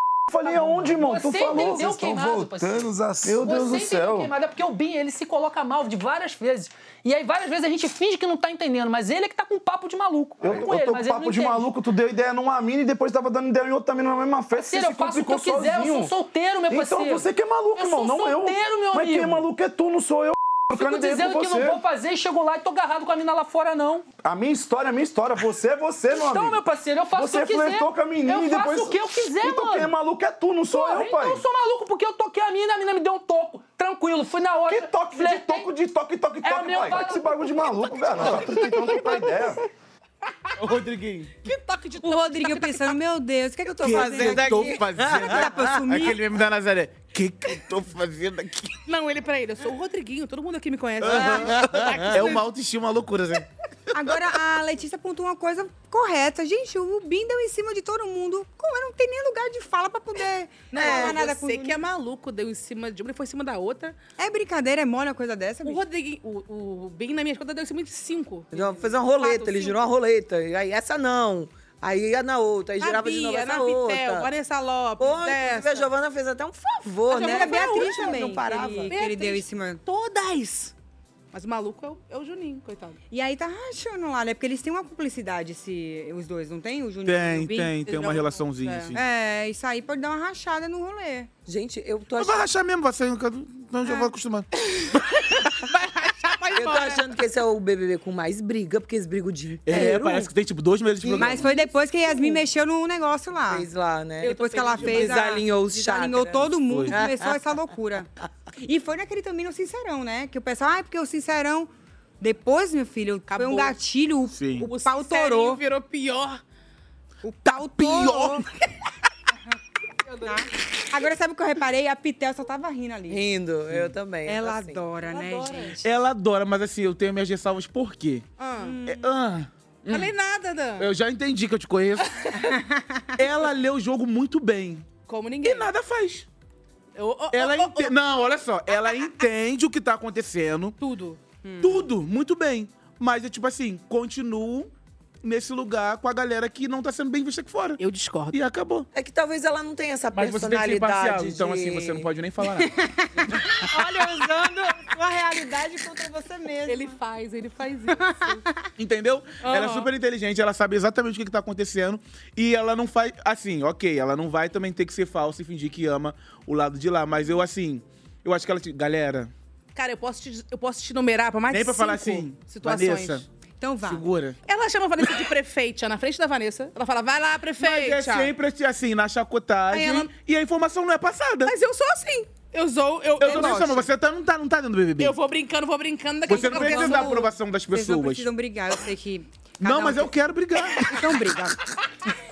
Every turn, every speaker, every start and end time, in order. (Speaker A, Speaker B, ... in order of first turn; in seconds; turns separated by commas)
Speaker A: 0.3-4.3, Speaker B: 0.4-11.7, Speaker A: 10.4-16.1, Speaker B: 14.5-19.5, Speaker A: 16.7-21.8, Speaker B: 20.7-24.1, Speaker A: 24.2-31.4, Speaker B: 26.1-29.9, Speaker B: 30.7-35.7, Speaker A: 34.7-39.6, Speaker B: 36.4-39.1, Speaker C: 40.6-41.4, Speaker D: 41.4-43.0, Speaker E: 42.0-46.2, Speaker F: 43.8-46.1, Speaker C: 43.8-48.8, Speaker D: 48.9-52.4, Speaker C: 51.0-53.4, Speaker F: 51.0-52.4, Speaker E: 53.9-61.8, Speaker D: 60.7-64.0, Speaker F: 60.8-61.2, Speaker E: 64.2-65.8, Speaker D: 65.6-69.9, Speaker F: 68.5-74.3, Speaker D: 72.8-75.9, Speaker F: 75.0-79.0, Speaker D: 77.1-78.2, Speaker E: 77.1-79.8, Speaker D: 78.9-80.7, Speaker D: 81.3-83.0, Speaker E: 83.1-87.8, Speaker C: 87.0-89.0, Speaker D: 87.8-89.0, Speaker E: 88.9-91.3, Speaker F: 91.5-92.5, Speaker C: 92.2-94.5, Speaker D: 94.9-97.1, Speaker F: 96.5-100.3, Speaker C: 99.7-101.5, Speaker F: 101.0-102.4, Speaker E: 101.2-103.7, Speaker F: 103.5-107.5, Speaker D: 104.2-105.3, Speaker E: 104.3-108.1, Speaker C: 106.6-107.0, Speaker E: 108.6-115.6, Speaker D: 113.3-113.8, Speaker C: 114.3-114.7, Speaker D: 114.6-116.4, Speaker E: 117.2-118.4, Speaker C: 117.5-118.4, Speaker D: 120.1-120.4, Speaker E: 120.2-123.2, Speaker F: 123.1-125.7, Speaker E: 124.2-125.9, Speaker C: 125.8-128.3, Speaker D: 128.4-128.8, Speaker E: 128.5-129.1, Speaker C: 128.8-130.1, Speaker D: 129.9-130.9, Speaker C: 130.8-132.1, Speaker E: 132.5-133.2, Speaker C: 133.2-134.9, Speaker D: 135.1-135.7, Speaker C: 135.4-136.2, Speaker D: 137.0-137.9, Speaker C: 137.3-140.8, Speaker D: 140.8-141.2, Speaker E: 141.4-141.8, Speaker C: 141.6-144.7, Speaker C: 145.2-147.8, Speaker D: 147.8-148.3, Speaker C: 148.3-148.9, Speaker F: 148.9-152.1, Speaker C: 150.1-152.7, Speaker E: 152.4-156.9, Speaker D: 156.7-158.4, Speaker C: 158.8-169.3, Speaker D: 159.4-159.9, Speaker D: 169.7-173.2, Speaker C: 171.5-173.2, Speaker E: 173.6-174.1, Speaker C: 173.8-174.4, Speaker D: 174.5-178.3, Speaker C: 177.6-181.5, Speaker D: 179.7-180.1, Speaker D: 181.4-183.9, Speaker C: 183.2-185.2, Speaker E: 183.2-183.8, Speaker D: 185.0-187.3, Speaker C: 186.3-188.3, Speaker E: 186.3-190.1, Speaker C: 189.6-191.2, Speaker E: 190.7-191.6